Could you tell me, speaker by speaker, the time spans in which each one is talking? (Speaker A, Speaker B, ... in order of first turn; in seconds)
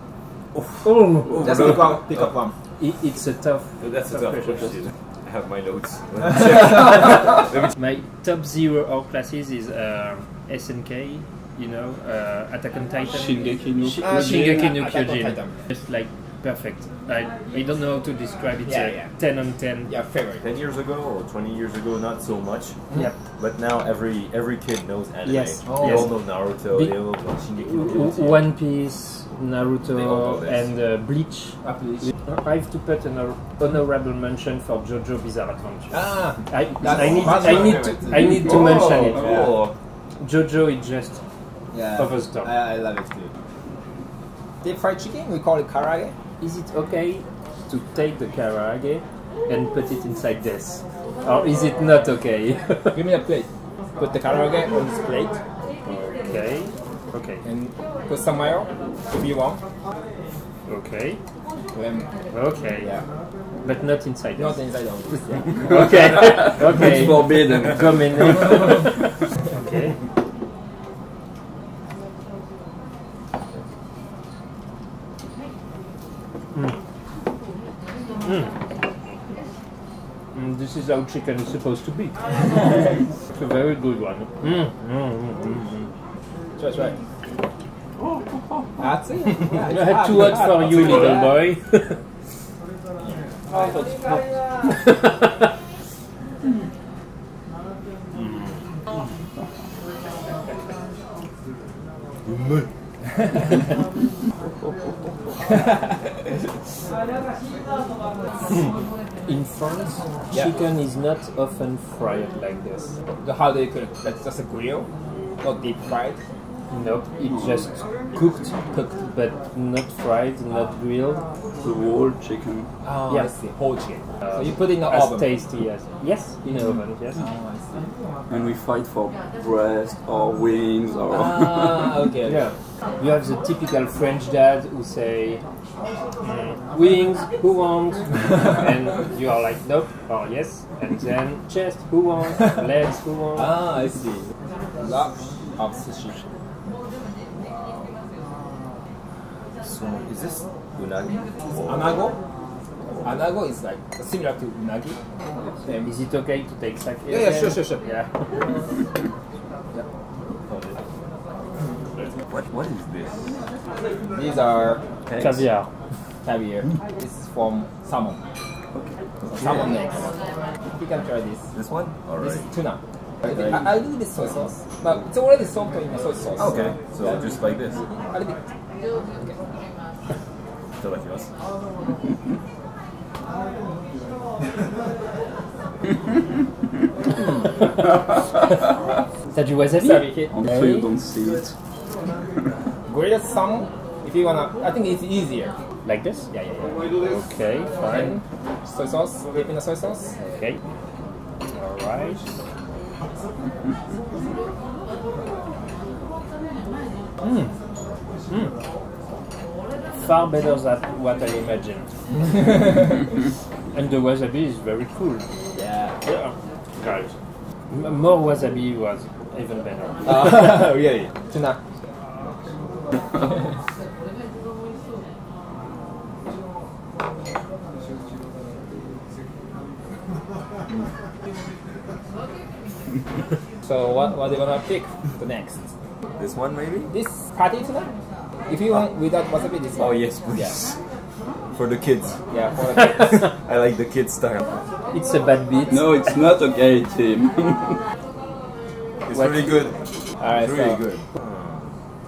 Speaker A: 0.5-2.2, 3.8-7.7, 20.4-22.8, 23.4-28.5, 29.9-30.7, 36.9-39.7, 149.6-151.9, 160.5-160.8, 162.3-163.2, 165.1-165.4, 168.7-169.6, 171.5-172.5, 176.4-177.8, 180.8-181.3, 236.2-236.9, 239.8-240.8, 241.5-242.2, 243.1-244.6, 249.1-249.7, 250.3-251.3
Speaker B: 0.8-1.6, 2.8-4.8, 7.7-19.9, 25.2-27.1, 27.6-31.6, 32.2-39.5, 40.2-41.2, 41.9-42.6, 46.4-53.0, 56.2-57.4, 60.7-61.2, 62.3-62.9, 63.6-64.6, 65.6-70.0, 78.2-78.5, 80.3-85.9, 89.6-92.0, 94.7-95.5, 109.2-113.0, 116.7-121.2, 124.3-127.2, 132.2-135.4, 136.2-143.5, 155.8-158.1, 165.2-165.7, 189.3-190.9, 195.8-196.3, 197.0-198.2, 200.3-200.6, 201.5-202.3, 207.2-207.5, 209.9-212.9, 213.7-215.3, 216.0-217.1, 217.7-220.4, 244.9-246.1, 249.1-249.4
Speaker C: 1.3-2.5, 14.0-15.5, 18.6-19.1, 19.9-20.4, 25.6-26.1, 31.6-32.1, 35.9-39.5, 41.7-43.3, 44.6-46.1, 52.9-53.5, 54.0-55.4, 57.4-59.6, 61.7-62.1, 62.8-63.0, 64.4-66.1, 86.6-87.0, 88.8-91.4, 110.3-110.6, 113.2-114.9, 115.4-116.2, 118.7-119.0, 122.8-125.3, 127.2-127.9, 131.1-132.4, 143.3-146.1, 151.7-152.2, 153.0-155.0, 157.1-157.9, 164.1-164.8, 166.2-168.2, 169.3-170.1, 170.8-171.5, 172.2-177.3, 178.0-178.4, 189.7-190.3, 192.9-195.6, 196.3-196.9, 197.8-200.1, 215.5-216.0, 220.0-221.6, 233.7-235.7, 236.9-237.9, 238.5-240.5, 242.3-243.2, 250.2-250.8
Speaker D: 13.1-14.8, 66.1-68.1, 117.3-117.6, 121.6-122.7, 128.3-132.0, 190.3-191.5, 245.7-247.8